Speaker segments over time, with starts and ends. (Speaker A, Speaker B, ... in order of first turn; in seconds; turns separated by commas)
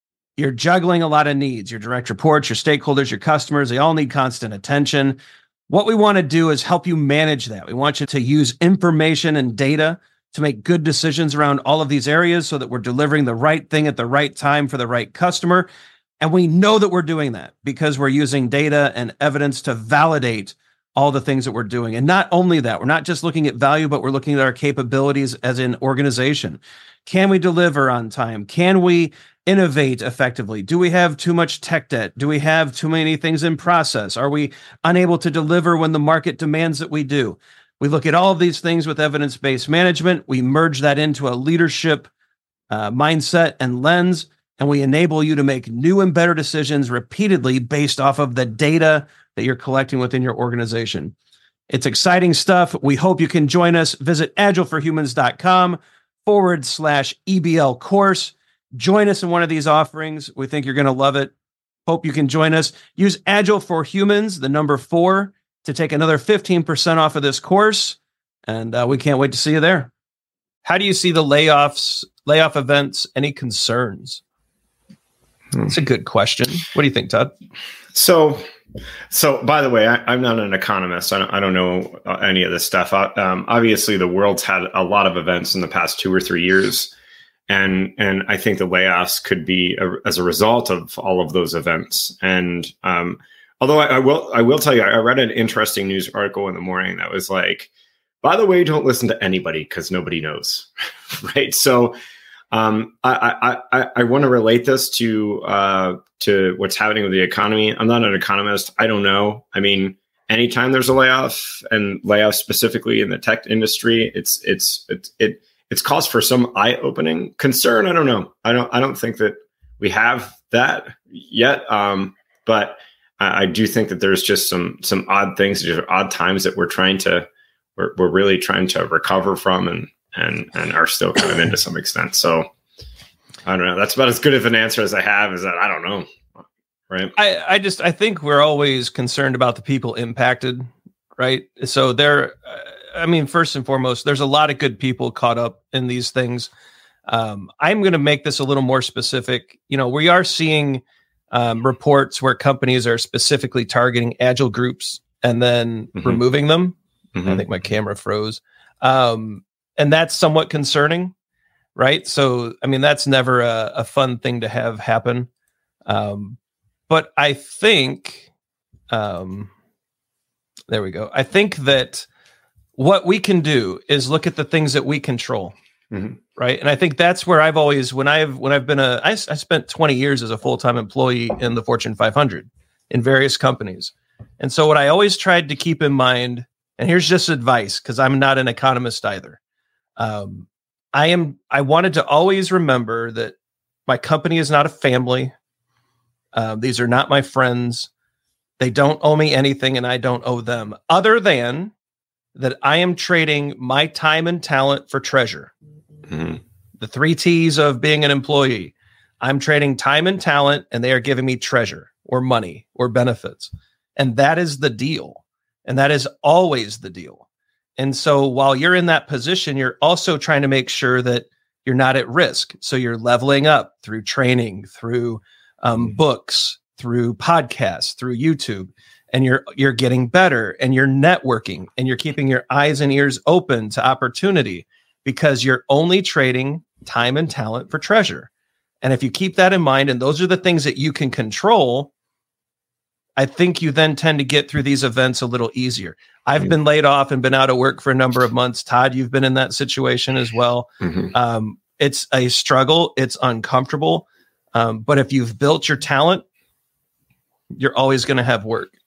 Speaker A: 0.4-15.7, Speaker A: 16.2-42.1, Speaker A: 42.7-51.1, Speaker A: 51.7-61.3, Speaker A: 61.9-69.9, Speaker A: 70.6-74.2, Speaker A: 75.6-77.3, Speaker B: 77.9-78.4, Speaker B: 79.1-86.9, Speaker B: 87.5-97.7, Speaker B: 98.2-101.9, Speaker B: 102.5-132.5, Speaker B: 133.4-136.1, Speaker B: 136.9-137.1, Speaker A: 137.1-146.5, Speaker A: 147.1-161.1, Speaker B: 155.9-156.2, Speaker B: 157.1-157.4, Speaker A: 161.7-165.3, Speaker A: 165.9-166.4, Speaker A: 166.9-168.3, Speaker A: 168.9-169.5, Speaker A: 170.7-172.1, Speaker A: 172.8-175.5, Speaker B: 175.9-176.2, Speaker A: 176.3-189.4, Speaker A: 190.0-193.3, Speaker A: 193.9-195.3, Speaker A: 196.3-197.9, Speaker A: 198.6-201.7, Speaker A: 202.3-205.5, Speaker B: 206.1-206.4, Speaker A: 206.8-217.2, Speaker A: 217.8-238.3, Speaker A: 238.8-241.9, Speaker A: 243.2-256.2, Speaker B: 250.8-251.1, Speaker A: 257.5-258.7